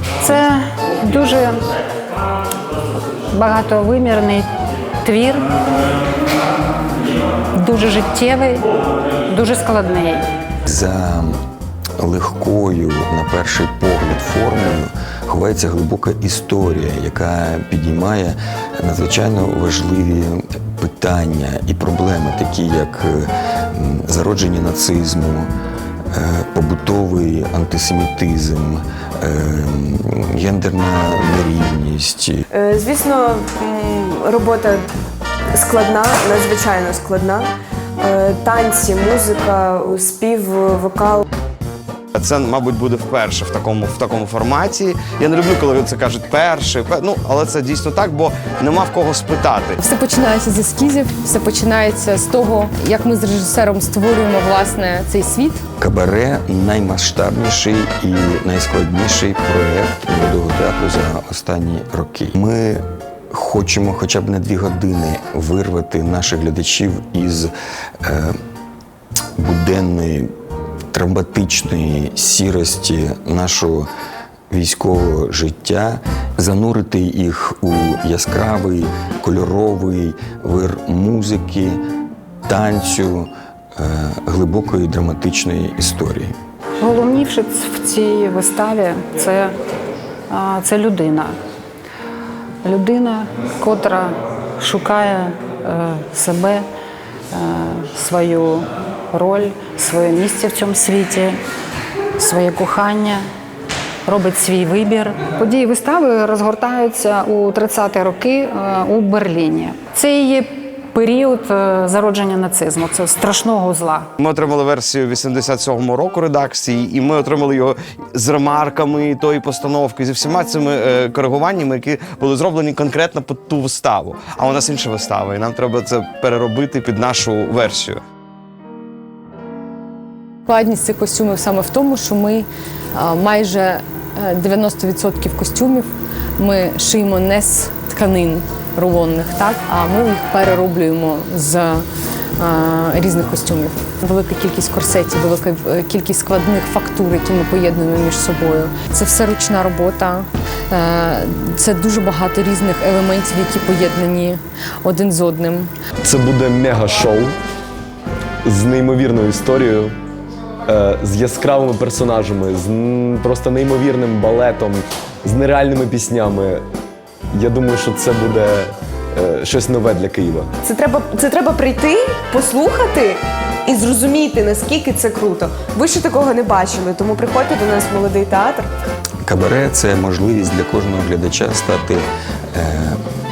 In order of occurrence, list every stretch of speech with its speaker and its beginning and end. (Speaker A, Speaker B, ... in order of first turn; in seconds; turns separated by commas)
Speaker A: 0.2-1.6, Speaker A: 3.3-4.5, Speaker A: 5.0-5.5, Speaker A: 7.5-8.7, Speaker A: 9.3-10.3, Speaker B: 10.7-11.4, Speaker B: 12.0-25.5, Speaker B: 26.1-32.4, Speaker C: 32.5-34.9, Speaker C: 35.5-37.5, Speaker C: 38.0-41.2, Speaker D: 42.1-49.8, Speaker E: 49.8-55.6, Speaker B: 55.8-68.4, Speaker B: 69.4-70.3, Speaker B: 70.9-73.9, Speaker B: 74.5-81.8, Speaker B: 82.5-86.3, Speaker A: 86.8-89.5, Speaker A: 90.3-91.3, Speaker A: 92.6-96.7, Speaker A: 97.3-101.4, Speaker A: 102.2-103.2, Speaker A: 104.0-114.1, Speaker D: 114.2-128.0, Speaker E: 130.4-141.8, Speaker E: 142.4-155.7, Speaker F: 156.0-157.4, Speaker F: 158.4-159.9, Speaker F: 160.7-166.6, Speaker F: 167.3-170.5, Speaker C: 170.6-178.7, Speaker B: 179.2-183.0